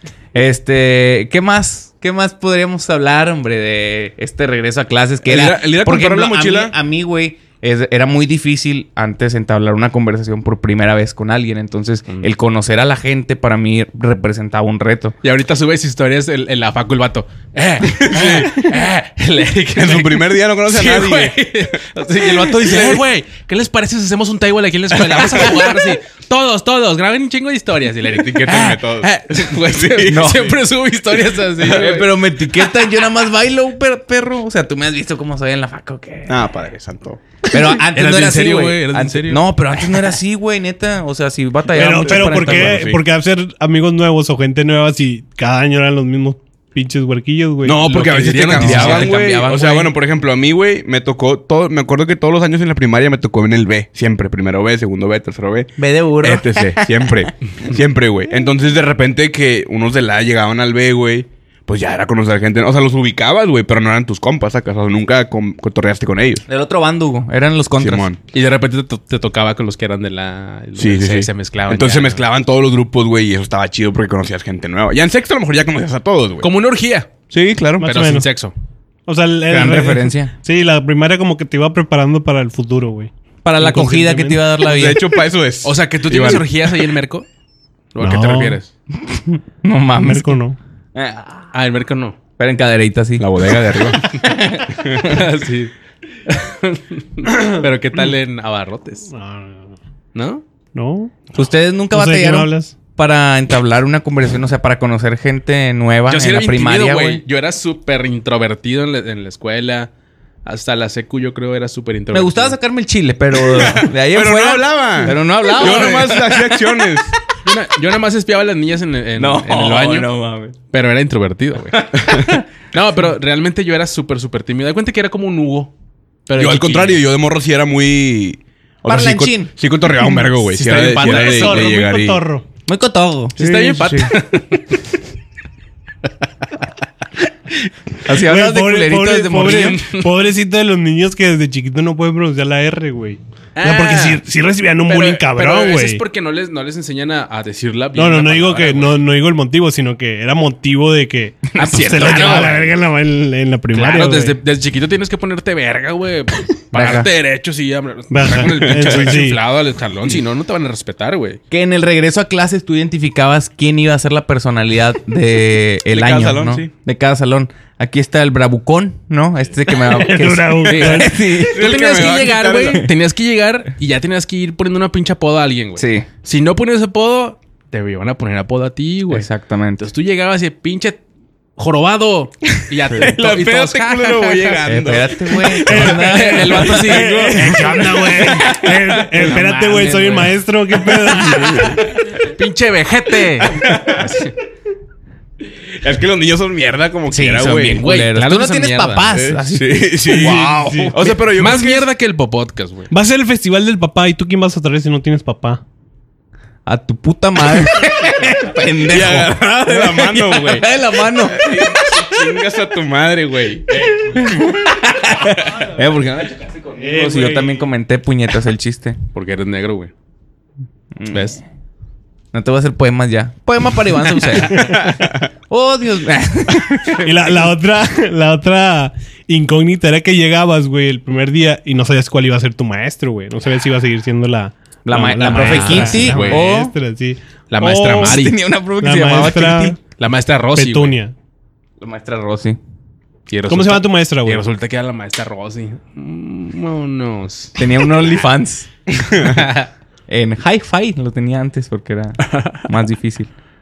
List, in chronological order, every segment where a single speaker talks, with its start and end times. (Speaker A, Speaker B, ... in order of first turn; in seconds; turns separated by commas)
Speaker A: 0.3-15.2, Speaker B: 5.2-6.7, Speaker C: 15.2-32.1, Speaker B: 17.9-18.7, Speaker B: 19.8-21.5, Speaker B: 22.3-23.0, Speaker B: 25.1-25.6, Speaker B: 28.1-30.4, Speaker A: 30.1-30.6, Speaker A: 31.6-36.5, Speaker B: 36.3-37.2, Speaker A: 37.5-43.0, Speaker C: 37.9-39.5, Speaker D: 41.7-47.9, Speaker B: 42.1-43.0, Speaker B: 47.6-66.5, Speaker A: 47.9-49.9, Speaker C: 48.0-49.1, Speaker A: 55.8-57.3, Speaker A: 66.5-68.1, Speaker B: 67.8-68.2, Speaker C: 68.3-72.2, Speaker B: 70.8-76.5, Speaker C: 76.4-77.1, Speaker B: 77.3-77.9, Speaker D: 77.8-78.3, Speaker C: 77.8-78.5, Speaker D: 79.1-84.5, Speaker A: 79.5-80.3, Speaker A: 83.4-85.0, Speaker B: 84.6-86.6, Speaker C: 85.6-87.3, Speaker C: 88.0-88.7, Speaker D: 88.0-88.6, Speaker A: 88.9-90.4, Speaker D: 90.0-90.6, Speaker A: 91.0-91.5, Speaker C: 91.5-92.2, Speaker A: 92.4-94.9, Speaker B: 93.2-94.1, Speaker B: 94.7-95.0, Speaker C: 94.9-95.7, Speaker C: 96.3-99.1, Speaker D: 99.1-99.7, Speaker C: 100.1-100.4, Speaker D: 100.7-101.2, Speaker A: 101.3-107.2, Speaker D: 101.9-102.7, Speaker C: 106.1-109.9, Speaker C: 110.5-112.6, Speaker A: 112.1-116.9, Speaker B: 113.5-117.2, Speaker C: 117.4-120.1, Speaker A: 119.2-120.6, Speaker C: 120.7-122.0, Speaker A: 121.7-122.5, Speaker C: 122.7-125.7, Speaker C: 126.3-127.0, Speaker B: 126.4-132.2, Speaker A: 128.9-129.5, Speaker C: 130.5-131.7, Speaker D: 130.9-132.5, Speaker A: 132.7-133.4, Speaker C: 133.4-134.8, Speaker B: 133.8-134.1, Speaker A: 138.1-139.8, Speaker D: 138.1-146.0, Speaker C: 139.5-140.1, Speaker C: 143.6-144.2, Speaker C: 144.8-149.0, Speaker D: 147.9-154.4, Speaker C: 151.6-152.7, Speaker A: 151.6-152.6, Speaker C: 153.7-161.4, Speaker A: 156.7-157.1, Speaker D: 158.1-159.4, Speaker B: 158.6-159.1, Speaker A: 161.5-171.8, Speaker B: 165.9-166.7, Speaker D: 169.7-171.1, Speaker B: 171.3-172.9, Speaker C: 171.5-181.0, Speaker A: 175.8-176.1, Speaker A: 179.1-179.8, Speaker C: 181.6-184.6, Speaker B: 182.9-185.9, Speaker A: 184.7-187.5, Speaker C: 185.6-188.5, Speaker D: 185.7-191.9, Speaker B: 186.6-188.5, Speaker A: 188.2-190.0, Speaker C: 189.1-190.4, Speaker B: 191.1-191.8, Speaker C: 192.2-194.3, Speaker B: 193.5-194.1, Speaker B: 195.8-197.8, Speaker A: 197.1-201.2, Speaker C: 197.8-199.1, Speaker B: 199.1-201.9, Speaker D: 200.1-200.9, Speaker C: 201.3-202.9, Speaker D: 202.9-205.6, Speaker A: 206.7-212.2, Speaker B: 208.8-214.2, Speaker A: 213.9-219.0, Speaker D: 216.8-217.6, Speaker C: 219.1-219.9, Speaker A: 221.0-221.4, Speaker C: 221.1-221.4, Speaker A: 222.3-227.5, Speaker D: 224.5-224.8, Speaker B: 224.7-225.2, Speaker D: 227.0-238.2, Speaker A: 234.8-236.7, Speaker C: 235.3-236.5, Speaker C: 237.5-238.4, Speaker A: 237.9-239.8, Speaker D: 238.8-239.8, Speaker C: 240.0-241.0, Speaker D: 240.6-241.1, Speaker A: 241.8-242.6, Speaker C: 243.3-247.6, Speaker D: 243.5-244.4, Speaker A: 247.6-248.7, Speaker C: 249.2-249.7, Speaker A: 250.1-253.3, Speaker C: 252.2-252.6